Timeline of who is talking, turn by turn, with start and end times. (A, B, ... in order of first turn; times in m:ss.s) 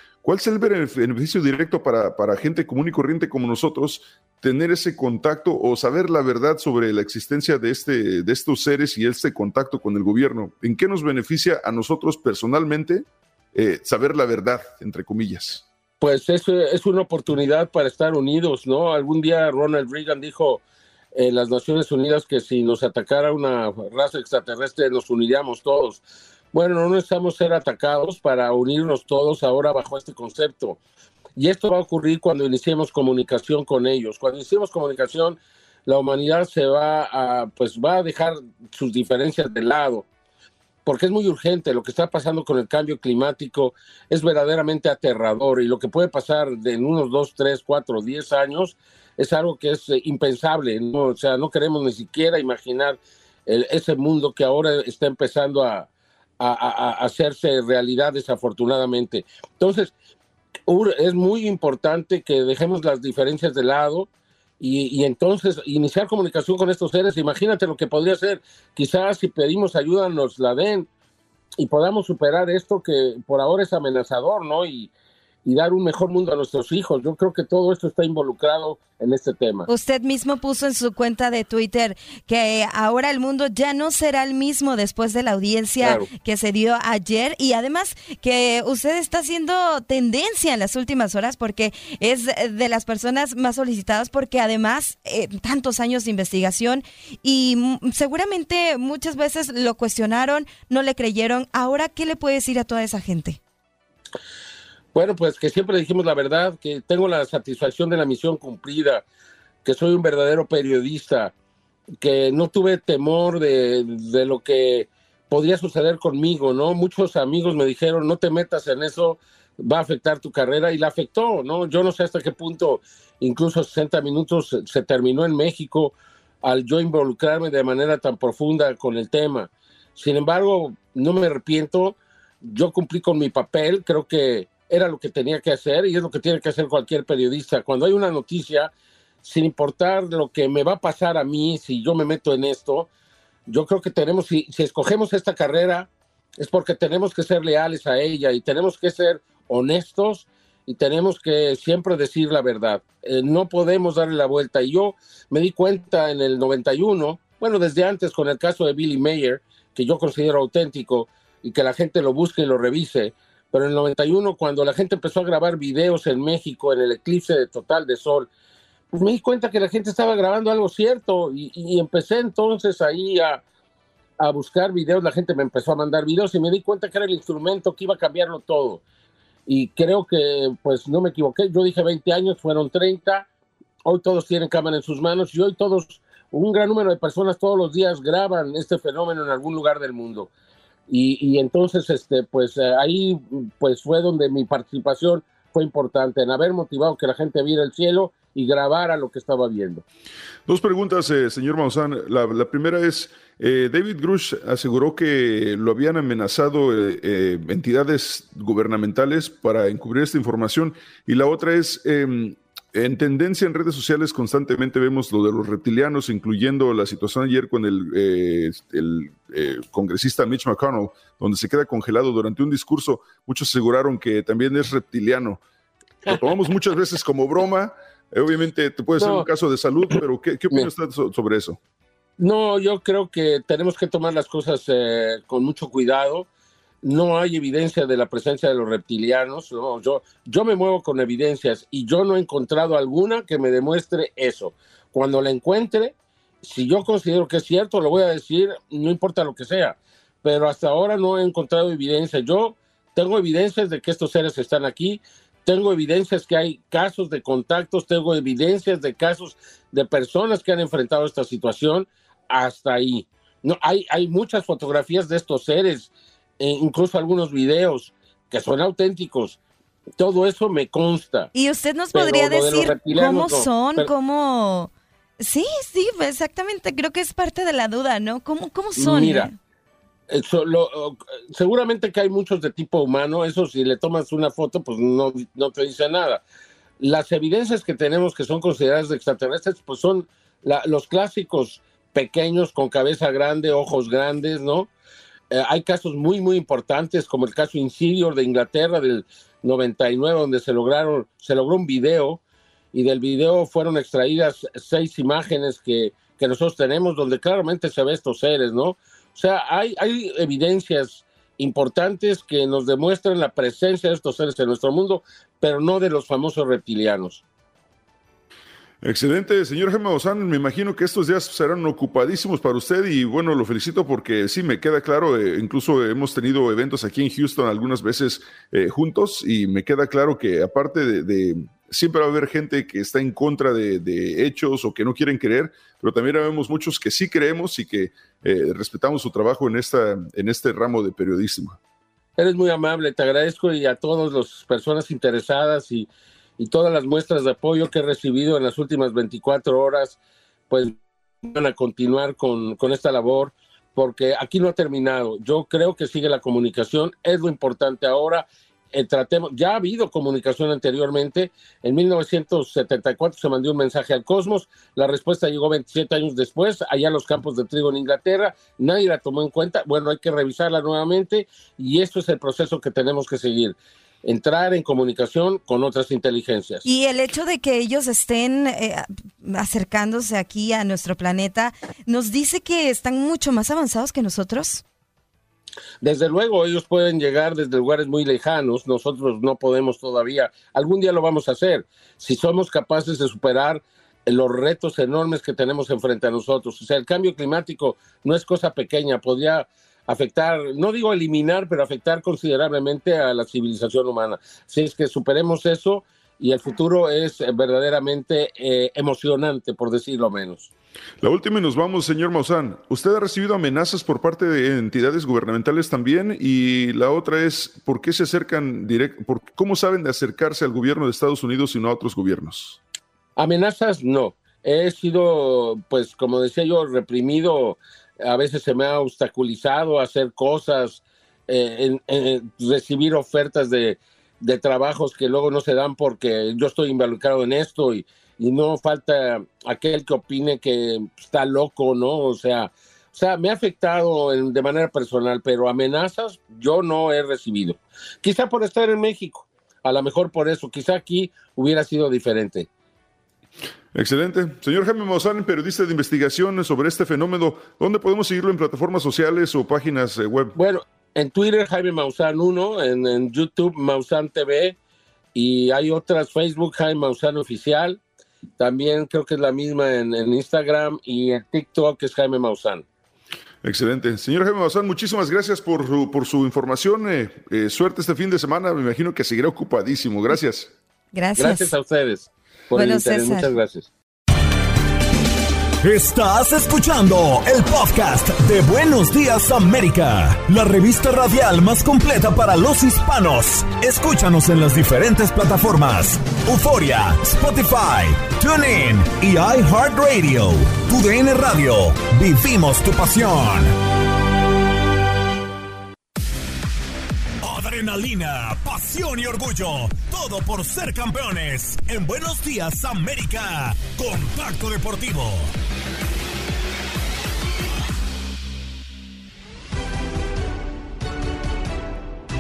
0:00.2-0:15.6 A
0:16.0-0:20.6 B
0:21.1-0:30.8 B
0:31.4-0:40.1 B
0:40.8-0:55.9 B
0:56.4-0:59.9 B
1:00.7-1:04.1 B
1:04.6-1:10.9 B
1:11.6-1:14.9 B
1:15.4-1:19.7 B
1:19.7-1:43.4 C
1:25.8-1:26.1 B
1:44.9-1:49.0 B
1:49.6-1:51.3 B
1:52.0-2:18.7 B
2:19.2-2:22.9 B
2:23.5-2:48.3 B
2:48.9-2:53.4 B
2:54.2-2:58.8 B
2:59.5-3:03.3 B
3:03.8-3:10.3 B
3:10.9-3:19.8 B
3:20.5-3:45.4 A
3:46.1-3:51.6 A
3:49.0-3:49.3 B
3:52.2-3:56.3 B
3:56.8-4:29.4 B
4:30.0-4:31.3 B
4:31.3-4:39.4 C
4:31.9-4:33.9 B
4:38.8-4:39.3 B
4:40.1-4:46.2 B
4:46.8-4:54.7 B
4:55.3-5:02.2 B
5:02.7-5:17.2 B
5:18.8-5:41.6 A
5:42.2-5:50.0 B
5:50.5-6:16.6 B
6:16.6-6:24.6 C
6:25.8-6:50.5 B
6:51.0-7:02.6 A
7:03.2-7:32.5 B
7:33.7-7:40.4 A
7:40.4-7:44.6 B
7:45.1-7:47.8 B
7:48.4-7:52.6 B
7:53.4-8:00.5 A
8:00.9-8:01.6 C
8:01.2-8:03.7 B
8:02.5-8:03.3 C
8:05.6-8:23.5 D
8:27.2-8:35.3 D